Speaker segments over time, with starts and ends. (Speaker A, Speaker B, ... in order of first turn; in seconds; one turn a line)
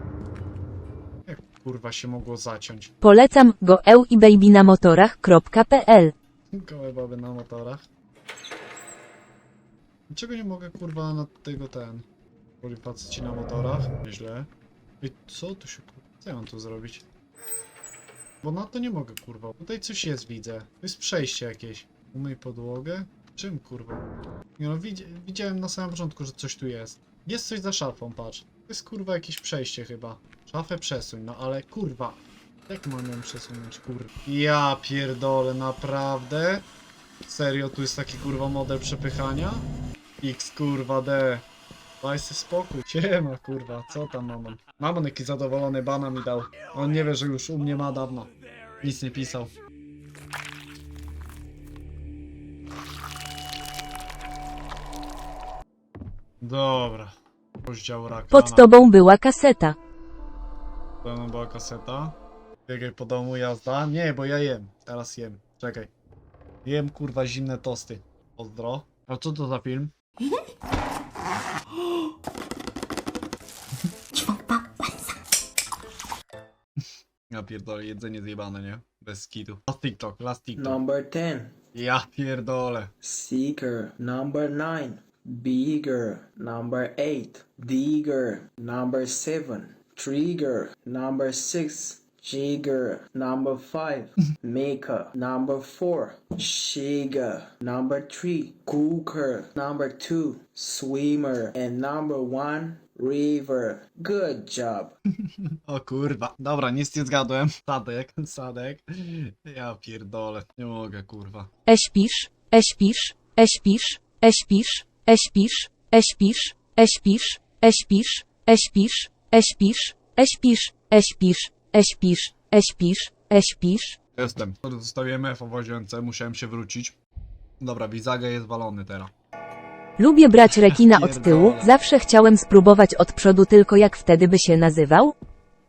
Speaker A: 1.3-2.9
Speaker B: 3.0-6.1
Speaker A: 6.5-7.8
Speaker A: 10.1-12.1
Speaker A: 12.6-14.5
Speaker A: 15.0-17.0
Speaker A: 18.4-24.0
Speaker A: 24.6-36.6
Speaker A: 37.2-39.7
Speaker A: 40.2-41.4
Speaker A: 42.0-49.5
Speaker A: 56.4-58.7
Speaker B: 58.3-59.8
Speaker A: 61.0-62.1
Speaker A: 62.7-65.9
Speaker A: 66.6-69.9
Speaker A: 77.3-80.8
Speaker C: 80.5-81.5
Speaker A: 81.7-82.9
Speaker C: 83.0-105.0
Speaker A: 105.6-111.5
Speaker B: 111.7-124.0
Speaker A: 124.1-127.0
Speaker A: 127.6-129.1
Speaker B: 130.0-135.1
Speaker A: 130.5-131.7